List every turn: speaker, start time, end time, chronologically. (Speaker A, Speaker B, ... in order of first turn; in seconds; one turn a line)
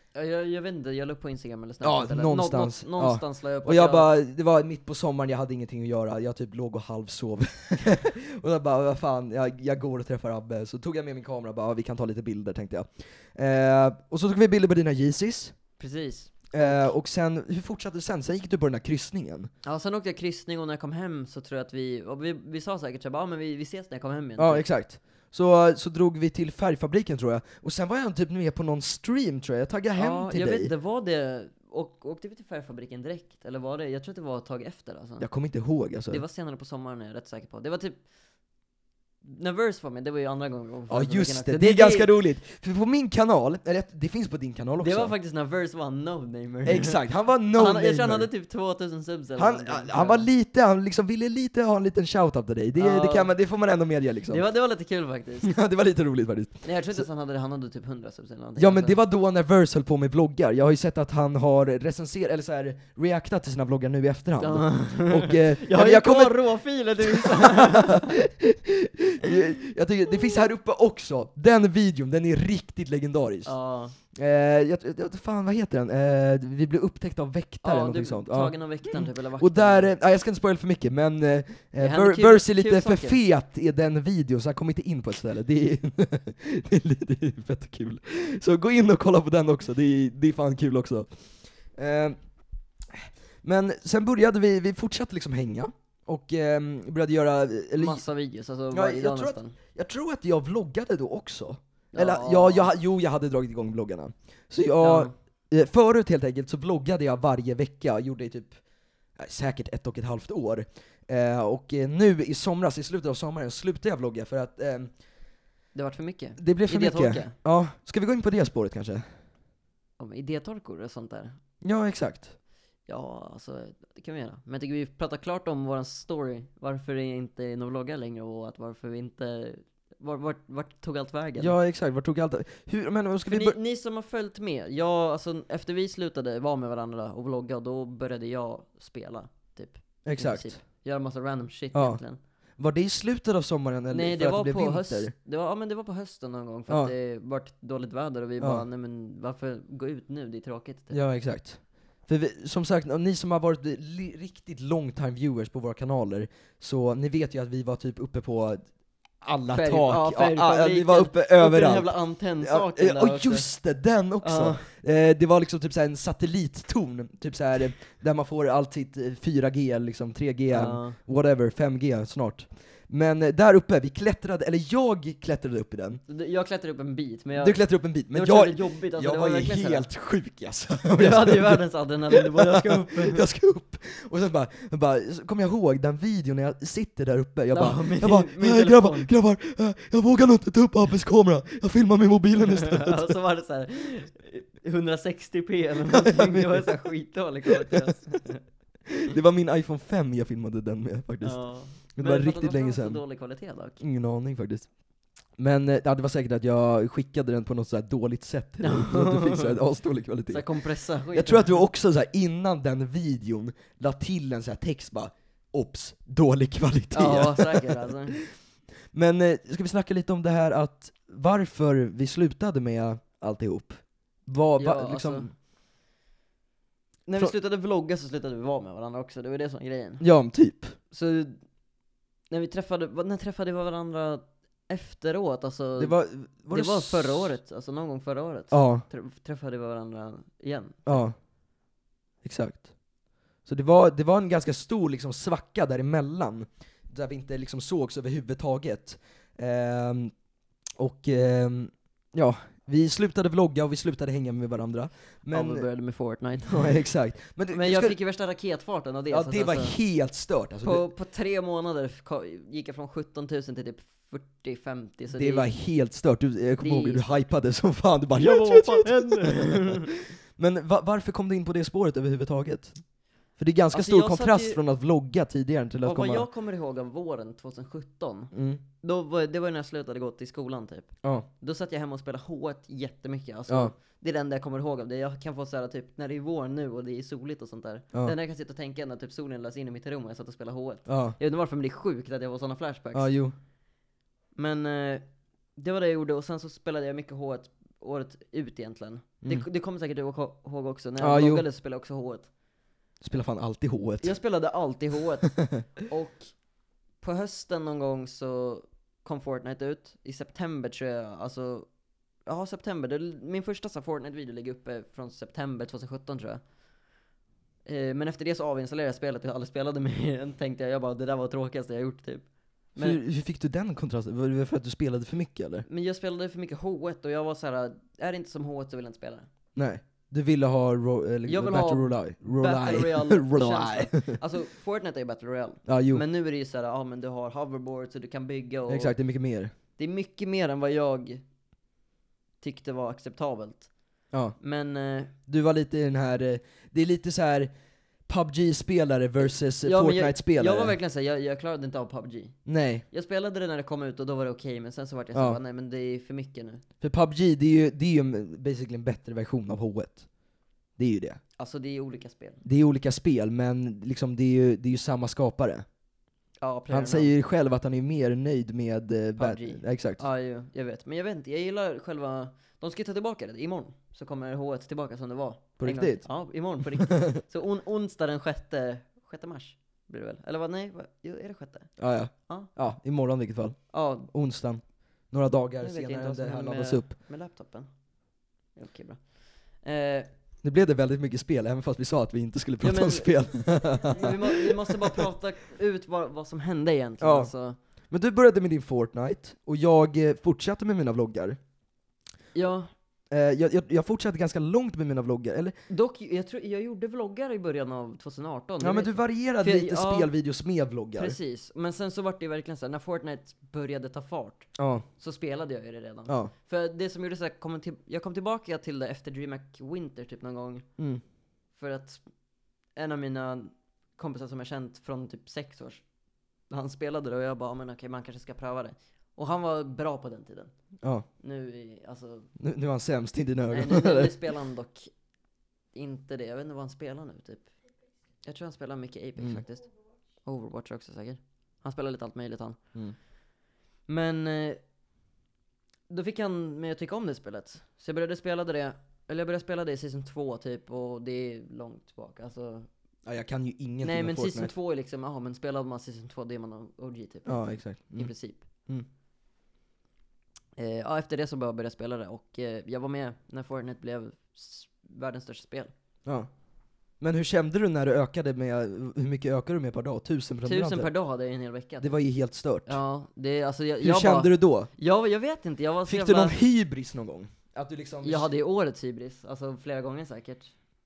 Speaker A: 0.1-4.1
Speaker B: 1.8-15.6
Speaker A: 15.8-16.9
Speaker B: 16.5-19.5
Speaker A: 19.6-24.6
Speaker B: 24.4-30.7
Speaker A: 29.9-35.2
Speaker B: 35.2-36.2
Speaker A: 36.1-38.0
Speaker A: 39.2-42.1
Speaker B: 40.9-45.1
Speaker A: 44.8-47.0
Speaker B: 46.6-48.3
Speaker A: 47.5-50.3
Speaker B: 49.4-54.4
Speaker A: 52.7-53.3
Speaker A: 54.3-55.5
Speaker B: 55.4-57.0
Speaker A: 56.6-59.0
Speaker B: 58.6-66.5
Speaker A: 64.4-68.2
Speaker B: 67.0-73.5
Speaker A: 73.5-74.0
Speaker B: 74.1-91.1
Speaker A: 77.6-80.0
Speaker A: 81.8-83.2
Speaker B: 91.7-92.2
Speaker B: 92.9-98.0
Speaker A: 97.7-99.5
Speaker B: 98.7-108.6
Speaker A: 101.9-102.7
Speaker A: 104.8-105.1
Speaker B: 109.2-114.9
Speaker A: 115.7-117.3
Speaker B: 116.4-119.0
Speaker A: 120.0-121.4
Speaker B: 121.6-122.3
Speaker A: 122.9-131.5
Speaker B: 131.4-133.6
Speaker A: 133.3-142.2
Speaker B: 140.0-140.6
Speaker B: 141.7-142.0
Speaker B: 142.6-145.1
Speaker A: 143.9-151.0
Speaker B: 146.7-146.9
Speaker B: 148.4-148.6
Speaker B: 150.9-176.0
Speaker A: 159.5-163.5
Speaker A: 164.2-164.7
Speaker A: 170.5-171.0
Speaker A: 176.1-179.9
Speaker B: 177.4-193.2
Speaker A: 180.9-183.2
Speaker A: 187.5-189.1
Speaker A: 192.4-198.4
Speaker B: 195.9-196.9
Speaker B: 197.5-197.9
Speaker B: 198.9-203.0
Speaker A: 201.2-203.8
Speaker B: 203.8-204.7
Speaker B: 205.4-210.5
Speaker A: 208.6-209.6
Speaker A: 210.3-211.6
Speaker B: 211.1-218.3
Speaker A: 216.9-218.2
Speaker B: 218.9-225.3
Speaker A: 224.6-225.3
Speaker A: 227.1-230.0
Speaker B: 230.0-230.8
Speaker A: 230.9-231.4
Speaker A: 232.3-236.0
Speaker B: 235.8-237.3
Speaker A: 236.5-241.0
Speaker B: 238.5-238.8
Speaker B: 240.8-241.1
Speaker B: 242.2-242.7
Speaker B: 243.4-250.1
Speaker B: 250.8-255.7
Speaker A: 255.3-256.8
Speaker B: 256.5-258.0
Speaker A: 257.5-259.8
Speaker B: 259.1-260.9
Speaker A: 260.6-265.5
Speaker B: 265.1-269.8
Speaker A: 266.6-267.2
Speaker A: 268.1-270.0
Speaker B: 270.4-272.8
Speaker B: 273.3-276.3
Speaker A: 273.7-274.6
Speaker A: 275.8-293.1
Speaker B: 278.3-278.6
Speaker B: 283.5-283.7
Speaker B: 290.9-291.1
Speaker B: 292.9-293.3
Speaker A: 294.4-295.0
Speaker A: 295.6-302.3
Speaker B: 301.0-301.4
Speaker B: 303.0-304.2
Speaker A: 304.0-306.4
Speaker A: 307.0-311.7
Speaker A: 312.2-316.4
Speaker A: 317.6-323.0
Speaker B: 322.8-325.6
Speaker A: 325.7-329.3
Speaker B: 329.6-334.2
Speaker A: 331.2-338.9
Speaker B: 335.6-336.0
Speaker B: 338.7-339.5
Speaker A: 339.8-341.2
Speaker A: 342.4-343.7
Speaker B: 344.1-344.4
Speaker A: 344.4-345.1
Speaker B: 345.3-347.5
Speaker B: 348.1-350.8
Speaker A: 349.2-352.4
Speaker B: 352.4-352.8
Speaker A: 352.9-356.6
Speaker B: 355.1-355.4
Speaker B: 356.8-360.1
Speaker B: 360.8-361.2
Speaker A: 361.4-362.4
Speaker B: 362.4-365.6
Speaker A: 366.4-367.1
Speaker B: 366.7-370.0
Speaker A: 369.2-382.5
Speaker B: 375.6-376.1
Speaker B: 376.8-377.2
Speaker B: 381.8-386.9
Speaker A: 383.7-384.1
Speaker A: 385.6-387.7
Speaker A: 388.5-390.1
Speaker B: 390.4-394.7
Speaker A: 392.6-393.3
Speaker A: 393.9-397.6
Speaker B: 397.0-397.3
Speaker B: 397.9-401.4
Speaker A: 402.3-402.7
Speaker B: 403.1-405.5
Speaker A: 405.7-410.1
Speaker B: 408.6-411.1
Speaker A: 410.9-420.7
Speaker B: 414.6-414.8
Speaker A: 421.5-422.0
Speaker A: 422.8-425.8
Speaker A: 426.5-430.5
Speaker A: 431.2-432.3
Speaker B: 432.4-434.2
Speaker A: 433.5-434.9
Speaker A: 435.7-437.5
Speaker A: 438.2-439.7
Speaker B: 439.2-439.4
Speaker A: 440.2-442.6
Speaker A: 443.9-444.6
Speaker A: 445.9-452.7
Speaker B: 453.1-454.5
Speaker A: 453.8-458.5
Speaker B: 457.2-458.1
Speaker A: 460.6-465.7
Speaker B: 467.0-470.9
Speaker A: 470.4-472.0
Speaker B: 471.8-472.8
Speaker A: 472.6-476.4
Speaker B: 473.8-474.7
Speaker B: 475.9-478.3
Speaker A: 478.0-480.5